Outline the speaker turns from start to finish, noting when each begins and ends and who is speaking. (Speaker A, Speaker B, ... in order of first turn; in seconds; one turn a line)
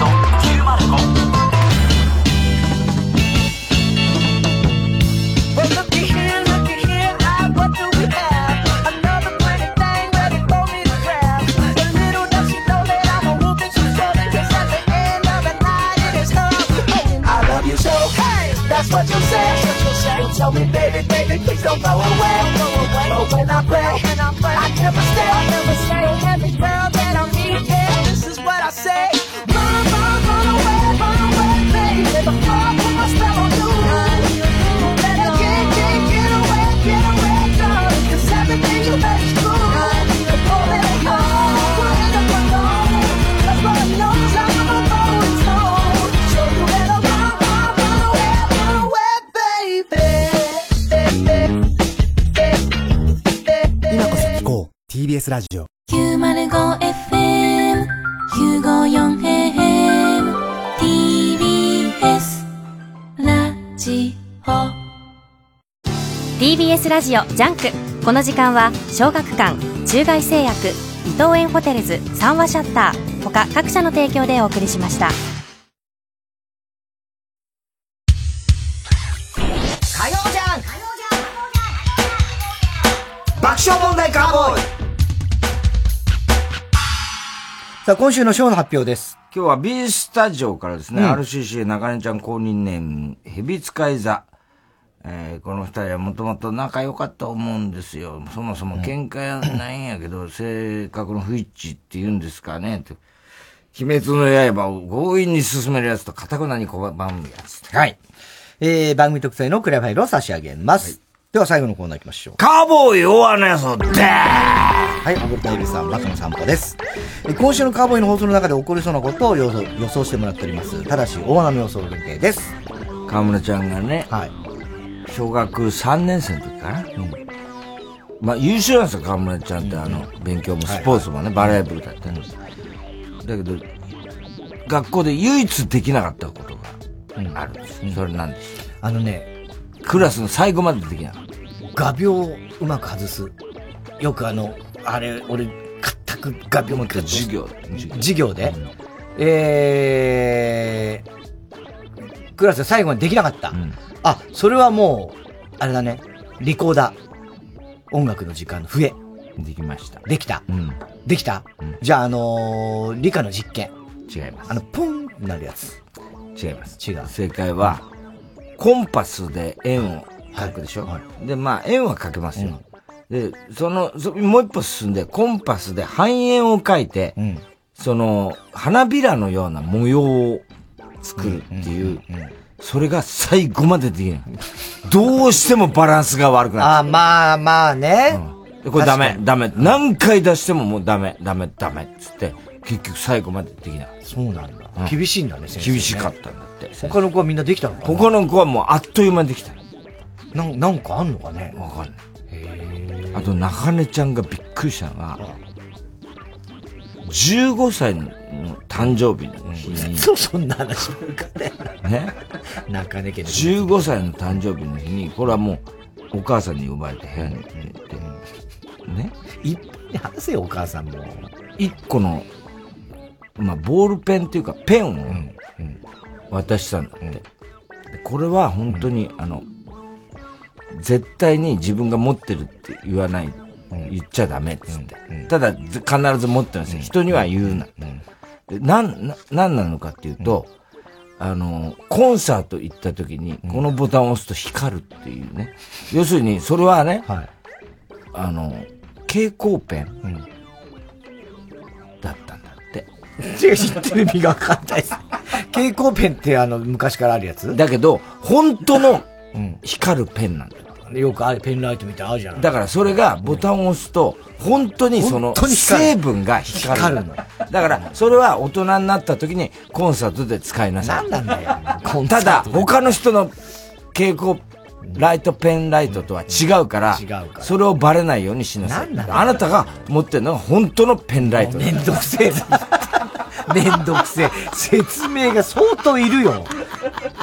Speaker A: 5.5-51.5
Speaker B: 55.9-62.5
Speaker B: 63.2-64.8
Speaker C: 66.4-75.2
Speaker D: 79.9-80.8
Speaker D: 83.4-84.7
Speaker E: 84.0-84.6
Speaker D: 87.8-89.2
Speaker E: 89.3-94.3
Speaker D: 90.9-91.2
Speaker E: 95.0-103.0
Speaker E: 103.7-107.7
Speaker D: 107.7-108.0
Speaker D: 108.6-112.4
Speaker E: 112.4-115.0
Speaker D: 115.0-122.5
Speaker E: 123.0-124.1
Speaker E: 125.1-126.9
Speaker E: 128.2-132.4
Speaker D: 129.6-130.0
Speaker D: 130.6-131.6
Speaker E: 133.2-133.8
Speaker E: 134.6-136.8
Speaker D: 137.2-138.0
Speaker E: 137.3-138.6
Speaker D: 138.8-139.3
Speaker E: 139.8-141.2
Speaker D: 141.7-143.3
Speaker D: 144.0-148.5
Speaker E: 146.6-148.7
Speaker D: 149.2-151.0
Speaker D: 152.4-157.0
Speaker D: 157.9-159.0
Speaker E: 159.4-160.8
Speaker D: 160.0-160.5
Speaker D: 161.0-163.7
Speaker E: 164.1-164.6
Speaker D: 164.5-165.8
Speaker E: 166.3-167.8
Speaker D: 166.8-167.1
Speaker E: 168.6-177.2
Speaker D: 170.3-171.0
Speaker D: 177.2-177.4
Speaker E: 177.7-180.4
Speaker E: 181.0-182.0
Speaker D: 181.1-182.3
Speaker E: 182.6-184.3
Speaker E: 184.8-186.8
Speaker D: 186.6-188.2
Speaker E: 188.1-193.9
Speaker D: 188.7-189.7
Speaker D: 194.0-196.1
Speaker E: 195.6-197.0
Speaker D: 196.8-198.1
Speaker E: 197.8-199.6
Speaker D: 200.3-201.6
Speaker E: 201.5-202.0
Speaker D: 202.3-203.3
Speaker E: 203.1-205.2
Speaker E: 207.0-210.1
Speaker D: 209.4-211.7
Speaker E: 211.8-212.1
Speaker D: 212.7-213.7
Speaker E: 213.3-218.0
Speaker D: 217.2-218.2
Speaker E: 218.8-219.1
Speaker D: 219.4-221.3
Speaker E: 221.6-222.3
Speaker E: 223.4-225.2
Speaker D: 225.1-225.8
Speaker E: 226.3-227.2
Speaker E: 227.9-229.4
Speaker E: 230.7-237.7
Speaker D: 234.7-235.3
Speaker D: 236.7-238.0
Speaker E: 238.5-240.5
Speaker E: 241.2-247.1
Speaker E: 248.1-250.0
Speaker E: 252.0-252.9
Speaker D: 253.2-257.6
Speaker E: 257.5-259.1
Speaker D: 259.3-259.6
Speaker E: 259.6-260.9
Speaker D: 260.9-262.4
Speaker E: 262.4-271.1
Speaker D: 265.0-266.0
Speaker D: 266.5-267.9
Speaker D: 270.8-272.9
Speaker E: 272.1-273.3
Speaker E: 273.9-274.4
Speaker E: 274.9-281.8
Speaker D: 276.3-277.5
Speaker D: 278.6-279.4
Speaker D: 281.2-286.5